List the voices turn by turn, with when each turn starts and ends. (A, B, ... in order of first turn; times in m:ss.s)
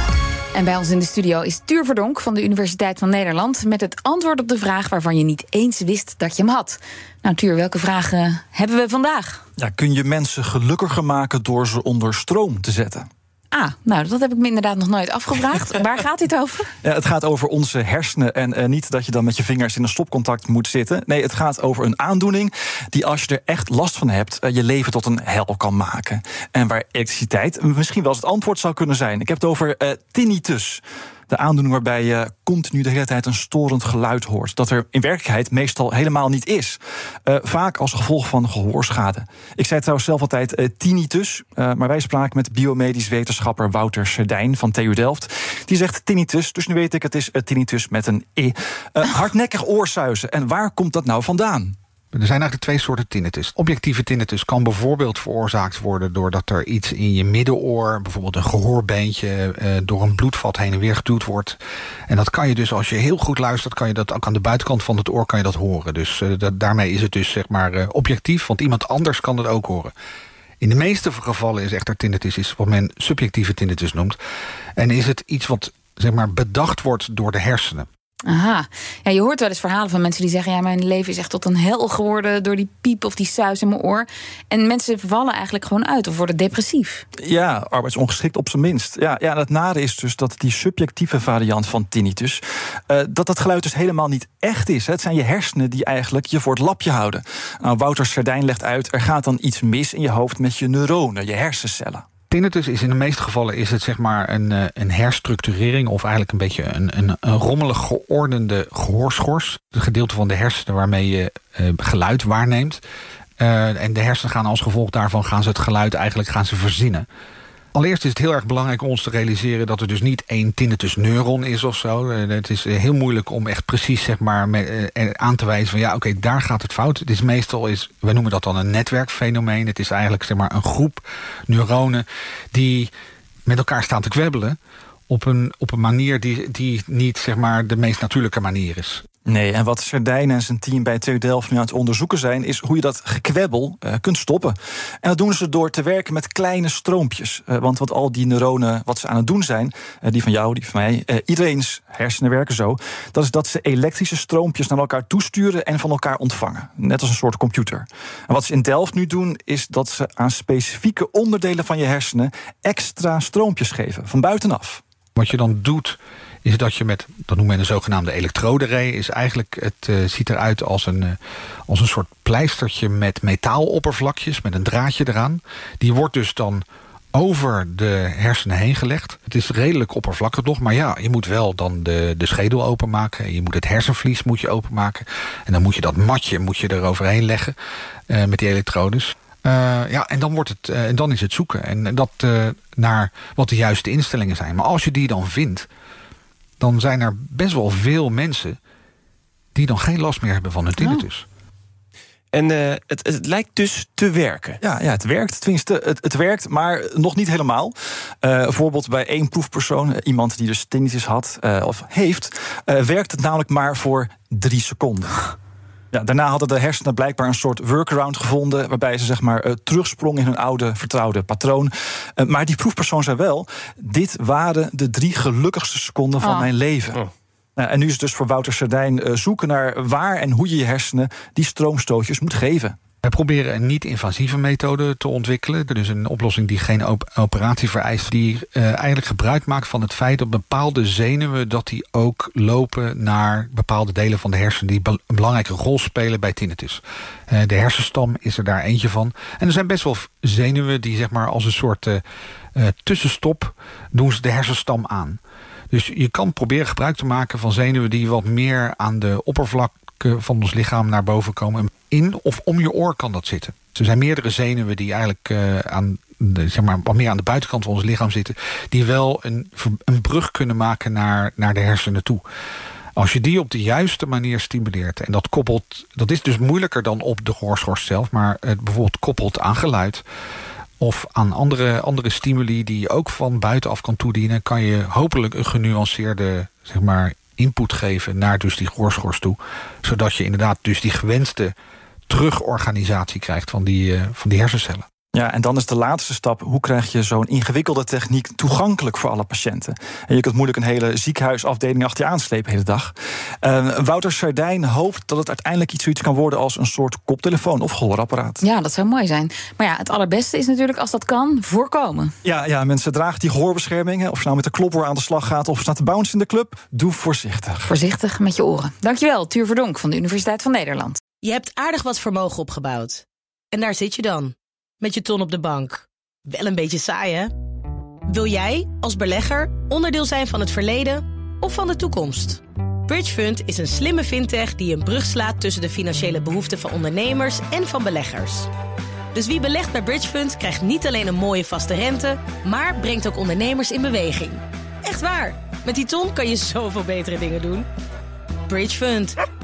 0:00.5-0:09.4 A
0:09.6-0:13.1 B
0:13.5-0:16.7 A
0:16.8-0:51.8 B
0:52.1-1:01.6 C
1:02.1-1:09.9 C
1:10.6-1:14.2 C
1:14.8-1:17.9 C
1:18.3-1:27.0 A
1:27.2-1:42.0 B
1:42.3-1:52.8 C
1:53.4-1:57.1 C
1:57.7-2:12.9 C
2:13.4-2:14.6 C
2:15.1-2:19.0 C
2:19.2-2:44.8 B
2:45.2-2:51.2 C
2:51.7-3:07.6 C
3:08.1-3:15.7 C
3:16.6-3:18.6 C
3:19.5-3:21.3 C
3:22.3-3:24.6 D
3:24.6-3:35.3 B
3:35.9-3:52.8 B
3:46.2-3:46.5 A
3:53.0-4:12.0 C
4:12.5-4:15.2 C
4:15.7-4:32.2 C
4:33.0-4:40.0 C
4:40.8-4:51.5 C
4:52.1-4:54.8 C
4:55.1-5:08.4 B
5:08.4-5:12.1 A
5:12.2-5:17.7 B
5:17.7-5:21.0 A
5:21.2-5:27.3 E
5:28.1-5:38.5 E
5:39.1-5:47.7 E
5:48.5-5:49.2 E